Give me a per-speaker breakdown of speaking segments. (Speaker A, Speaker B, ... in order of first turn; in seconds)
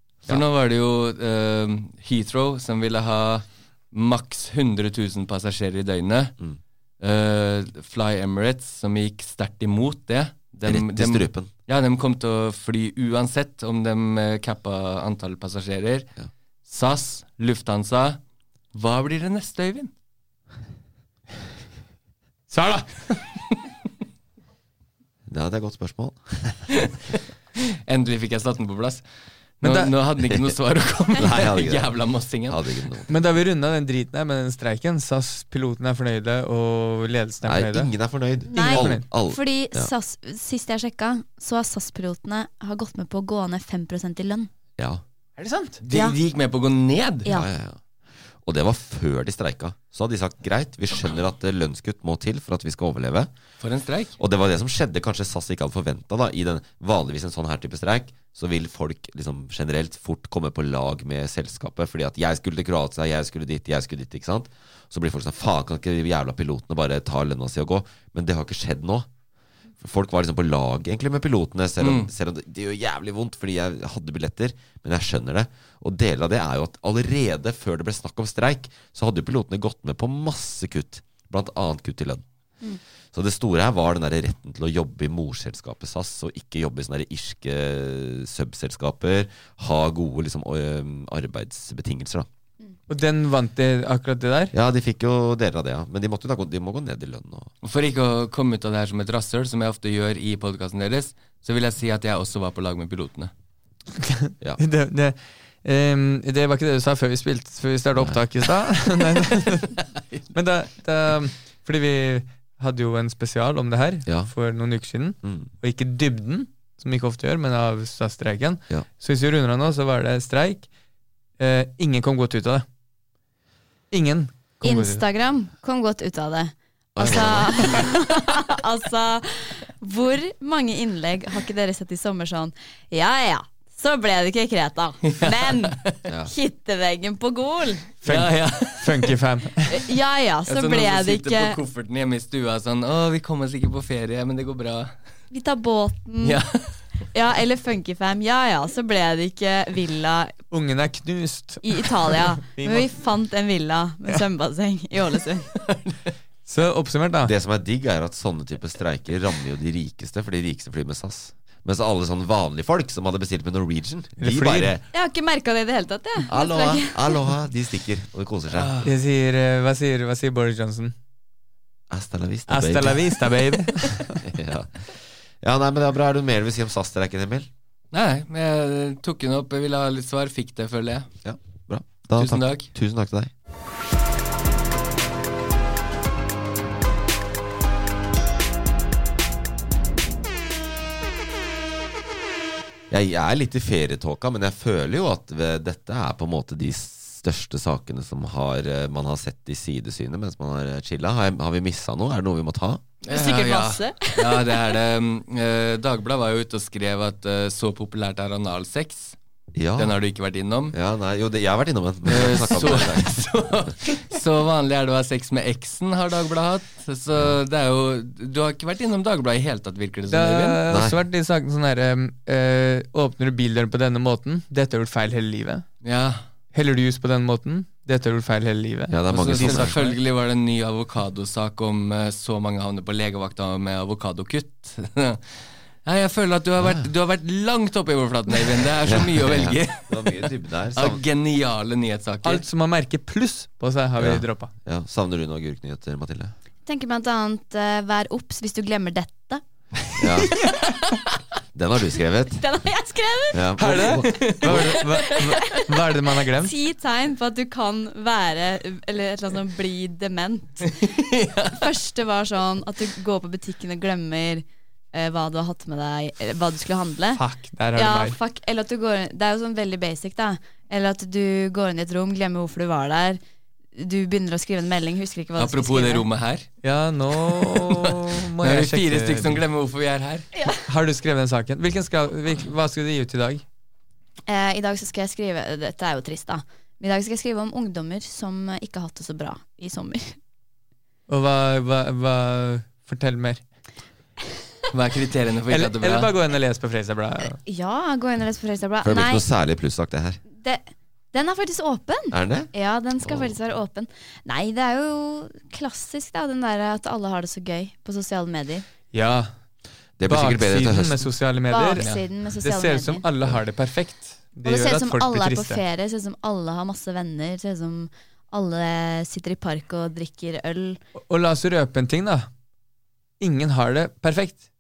Speaker A: 0.3-6.3, 7.0-16.1, 16.7-18.2, 18.7-19.9, 27.9-29.1, 29.6-32.6, 45.8-47.3, 53.6-54.1, 71.8-72.1, 97.6-103.3, 135.1-135.9, 138.0-139.1, 140.5-144.9, 146.2-146.8, 155.6-155.9, 168.5-168.9, 177.9-181.1, 182.2-182.7, 203.0-209.2, 209.8-210.8, 212.1-220.6, 225.8-226.2, 229.1-242.4, 254.0-254.7, 260.8-261.6, 275.4-276.5, 277.2-280.3, 294.7-296.1, 311.8-312.1
Speaker B: 10.7-11.5, 25.3-26.8, 30.3-30.6, 31.1-33.2, 37.4-39.9, 47.3-47.8, 48.4-53.3, 54.2-69.1, 69.8-82.2, 83.1-92.3, 94.5-97.5, 108.0-108.2, 114.1-114.3, 115.2-115.5, 127.0-127.9, 136.1-136.3, 157.2-164.9, 166.3-168.7, 171.9-173.2, 174.2-177.5, 181.2-183.3, 192.9-202.8, 209.5-210.0, 210.7-213.7, 220.7-221.0, 228.9-229.8, 236.6-236.9, 238.8-241.0, 244.0-246.3, 250.0-250.4, 251.6-252.4, 253.3-254.8, 298.8-300.2, 302.1-303.3, 310.0-311.1
Speaker C: 22.5-23.3, 29.6-29.9, 33.1-37.9, 38.5-39.1, 45.4-45.8, 92.9-94.5, 104.0-109.8, 110.3-120.7, 121.4-122.7, 123.9-125.0, 138.0-139.7, 150.5-152.9, 156.5-157.3, 164.2-164.8, 168.8-170.9, 172.5-174.2, 220.1-225.7, 226.5-230.0, 242.2-244.5, 253.6-256.5, 267.2-268.2, 276.6-279.4, 280.7-283.4, 291.1-293.4, 295.5-297.4, 308.9-309.3, 310.1-311.9, 312.4-315.6, 321.0-322.3, 323.2-324.4
Speaker D: 38.5-44.5, 45.9-46.2, 124.6-137.9, 139.7-141.6, 145.3-146.4, 147.1-150.3, 151.6-155.5, 164.9-167.2, 203.1-204.8, 246.7-249.4, 252.4-253.5, 254.7-255.7, 256.4-260.9, 261.5-267.2, 267.8-273.2, 273.8-276.1, 284.3-290.2, 297.3-299.2, 300.4-308.6, 311.5-313.0, 314.4-320.8